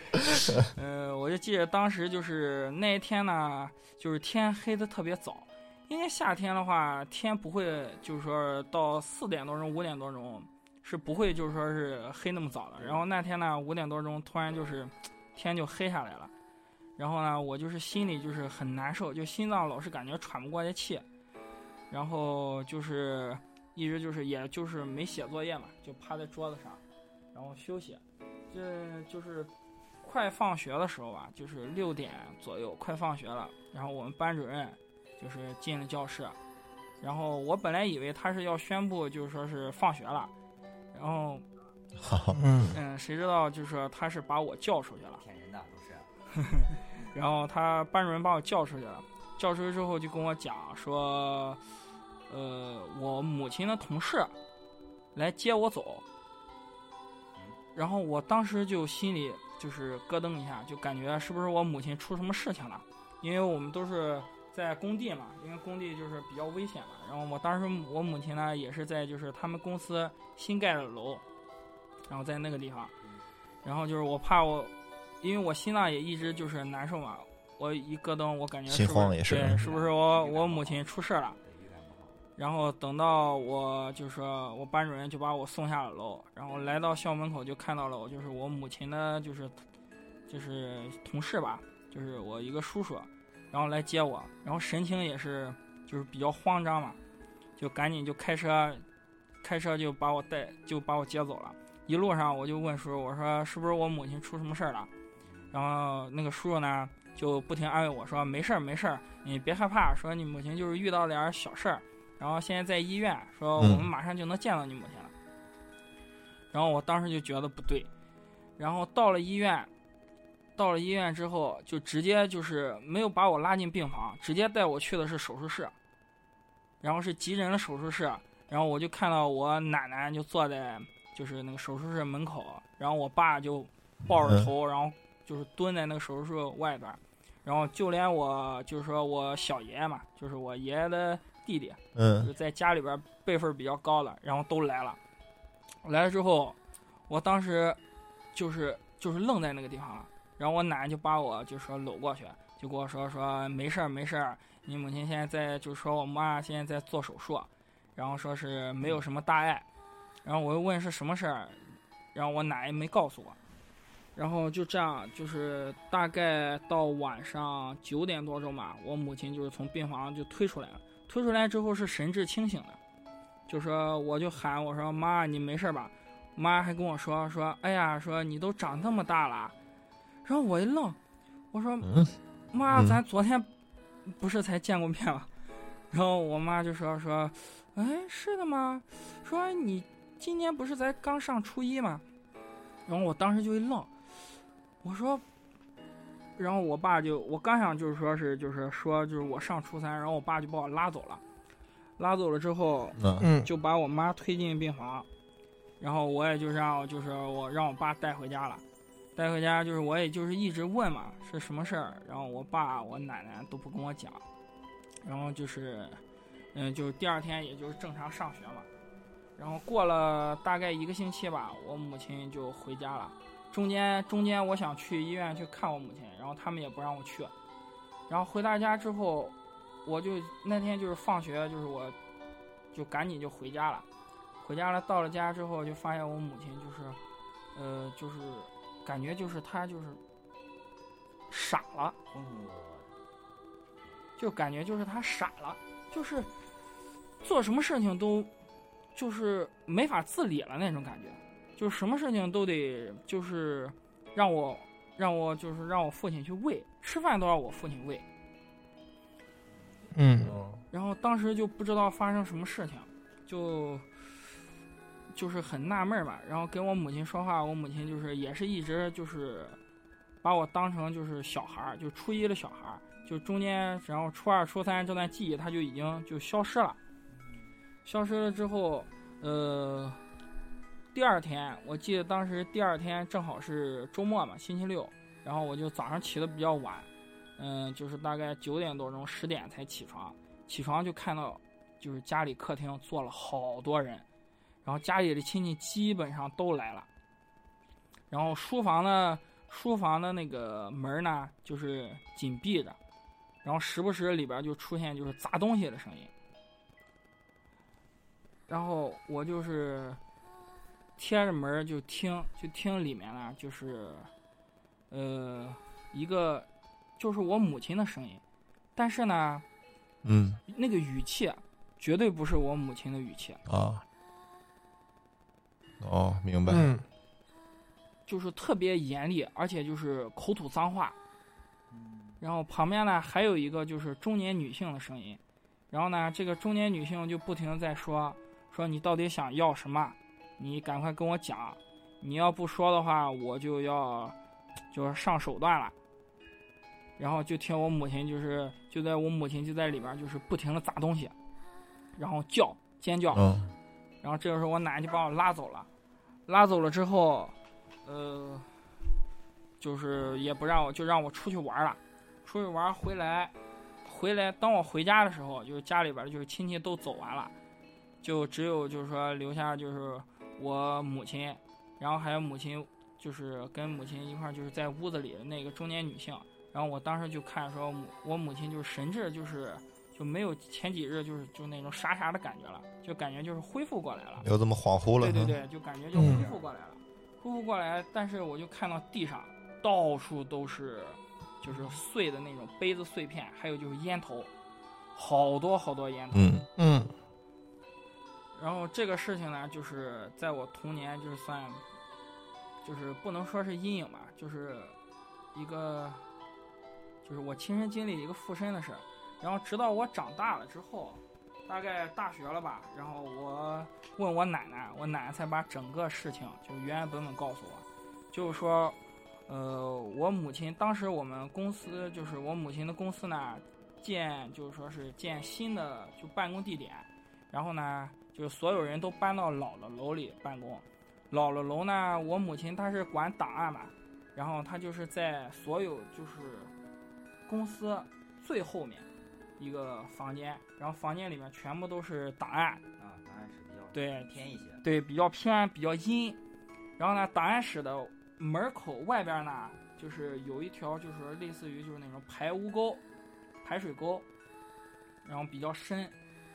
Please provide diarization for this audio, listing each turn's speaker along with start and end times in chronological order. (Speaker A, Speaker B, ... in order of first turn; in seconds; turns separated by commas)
Speaker A: 0.8-16.3, Speaker A: 17.0-21.1, Speaker A: 21.9-26.8, Speaker A: 27.3-29.5, Speaker A: 30.0-36.4, Speaker A: 37.0-40.3, Speaker A: 40.9-41.4, Speaker B: 42.0-42.4, Speaker C: 42.4-42.8, Speaker A: 42.7-45.2, Speaker D: 45.2-46.1, Speaker A: 46.4-51.6, Speaker A: 52.3-54.3, Speaker A: 55.1-56.0, Speaker A: 57.8-71.2, Speaker A: 72.1-72.9, Speaker A: 73.6-81.4, Speaker B: 78.7-79.7, Speaker D: 79.6-80.8, Speaker D: 81.4-82.2, Speaker A: 82.4-89.6, Speaker A: 90.3-97.0, Speaker A: 97.6-98.8, Speaker A: 99.4-104.9, Speaker D: 105.2-105.5, Speaker A: 105.5-115.1, Speaker B: 113.6-113.9, Speaker A: 116.5-117.9, Speaker A: 118.6-119.7, Speaker A: 120.6-125.7, Speaker A: 126.8-145.0, Speaker B: 134.2-134.5, Speaker B: 142.0-142.3, Speaker A: 145.8-146.6, Speaker A: 147.1-147.8, Speaker A: 148.3-159.7, Speaker A: 160.2-161.6, Speaker A: 162.1-163.4, Speaker A: 164.2-172.8, Speaker A: 173.5-179.5, Speaker A: 180.2-181.0, Speaker A: 181.5-181.9, Speaker B: 181.8-182.1, Speaker A: 182.5-183.5, Speaker B: 182.7-183.0, Speaker A: 184.1-185.3, Speaker A: 185.9-192.0, Speaker A: 192.9-193.9, Speaker A: 194.8-195.2, Speaker A: 196.4-201.2, Speaker A: 202.0-205.1, Speaker B: 203.0-203.3, Speaker C: 203.2-203.5, Speaker A: 205.8-208.6, Speaker A: 209.2-214.2, Speaker A: 215.0-216.0, Speaker A: 216.5-218.7, Speaker A: 219.4-227.3, Speaker A: 228.1-232.0, Speaker A: 232.7-233.8, Speaker A: 234.4-237.0, Speaker A: 237.5-240.0, Speaker A: 241.3-242.0, Speaker D: 242.1-242.9, Speaker A: 244.2-246.3, Speaker A: 247.2-248.3, Speaker A: 248.9-258.0, Speaker C: 259.9-260.4, Speaker B: 260.2-260.6, Speaker A: 260.7-264.0, Speaker A: 265.1-269.6, Speaker A: 270.2-276.8, Speaker D: 277.1-277.5, Speaker A: 277.9-280.0, Speaker A: 280.9-294.0, Speaker A: 294.6-296.9, Speaker A: 298.1-302.8, Speaker A: 303.4-306.1, Speaker A: 308.5-310.0, Speaker A: 311.0-314.1, Speaker A: 314.9-316.5, Speaker A: 317.0-318.2, Speaker A: 318.8-319.4, Speaker B: 320.0-320.4, Speaker A: 320.5-323.4, Speaker B: 323.5-323.8, Speaker B: 325.8-326.7, Speaker C: 326.5-326.8, Speaker A: 328.1-330.9, Speaker D: 331.7-332.2, Speaker A: 332.2-335.2, Speaker A: 335.7-344.1, Speaker A: 344.7-345.7, Speaker A: 347.0-351.1, Speaker A: 352.0-353.4, Speaker B: 353.1-353.5, Speaker A: 354.0-355.7, Speaker A: 356.3-358.5, Speaker A: 359.6-363.3, Speaker A: 363.9-367.3, Speaker A: 368.0-384.3, Speaker B: 384.2-385.4, Speaker A: 385.0-394.3, Speaker C: 385.9-386.3, Speaker A: 394.9-396.4, Speaker B: 396.1-396.4, Speaker C: 396.6-396.9, Speaker A: 398.4-401.6, Speaker A: 402.6-404.8, Speaker A: 405.3-406.0, Speaker A: 407.0-436.5, Speaker A: 437.3-438.9, Speaker A: 439.4-442.6, Speaker D: 442.8-444.6, Speaker A: 443.7-446.2, Speaker A: 446.8-452.8, Speaker A: 453.4-454.1, Speaker A: 455.0-455.9